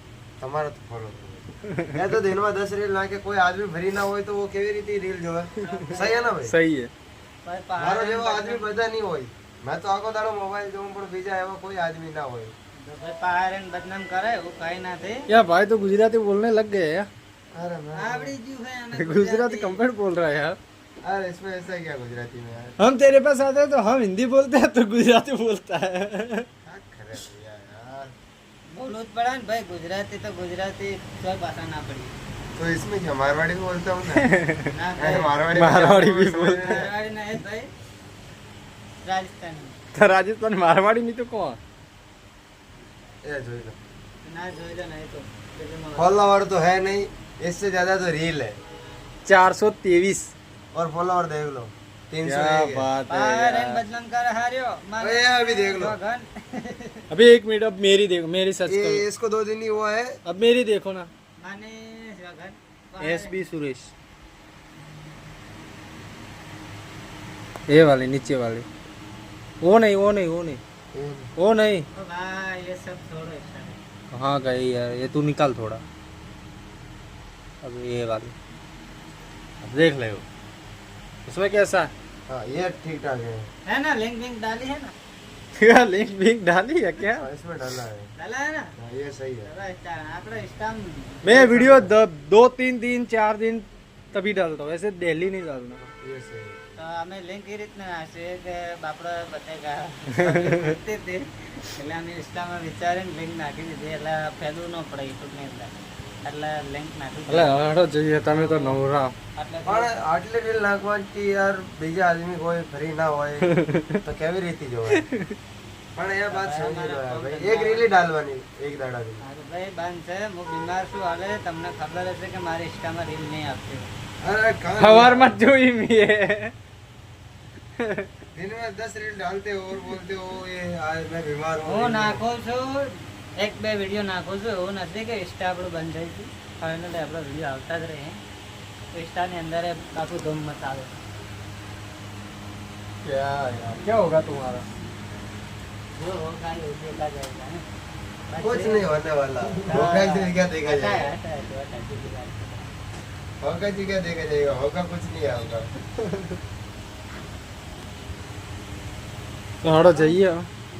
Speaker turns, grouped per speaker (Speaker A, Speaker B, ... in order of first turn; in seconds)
Speaker A: 0.4-6.5, 7.8-12.5, 17.5-18.4, 21.0-22.8, 26.6-28.1, 32.5-34.3, 35.0-36.9, 43.2-43.8, 46.0-48.6, 50.7-52.9, 55.0-56.0, 58.7-60.2, 70.9-71.3, 82.3-83.5, 87.1-88.1, 88.8-89.5, 91.3-91.9, 96.0-96.6, 109.6-115.0, 115.9-119.2, 124.2-125.4, 128.3-132.2, 148.4-151.1, 153.4-155.7
Speaker B: 5.6-6.3, 7.4-8.7, 12.8-15.3, 17.9-19.8, 28.7-32.1, 34.7-35.4, 36.4-37.7, 39.0-39.8, 44.2-46.2, 53.1-57.0, 61.4-63.3, 71.9-73.8, 83.7-84.9, 88.2-88.7, 89.4-91.3, 96.8-105.7, 106.2-107.5, 108.3-108.8, 109.3-109.9, 116.3-117.9, 119.2-123.9, 131.6-138.2, 138.9-141.0, 145.9-147.6, 148.3-148.9, 149.6-152.7, 159.6-160.2
Speaker C: 6.4-6.9, 15.3-17.1, 18.9-20.6, 22.8-26.5, 34.2-34.7, 35.5-36.8, 39.9-41.6, 49.2-50.3, 52.2-53.8, 57.1-59.0, 60.2-61.1, 63.0-63.9, 67.7-68.7, 69.6-70.6, 71.4-71.8, 74.1-75.8, 77.6-78.3, 79.6-80.2, 81.3-81.9, 85.6-87.2, 91.2-95.8, 100.2-100.8, 107.3-109.1, 113.5-114.0, 114.9-115.3, 124.8-126.5, 127.8-128.1, 143.0-144.6, 159.6-160.5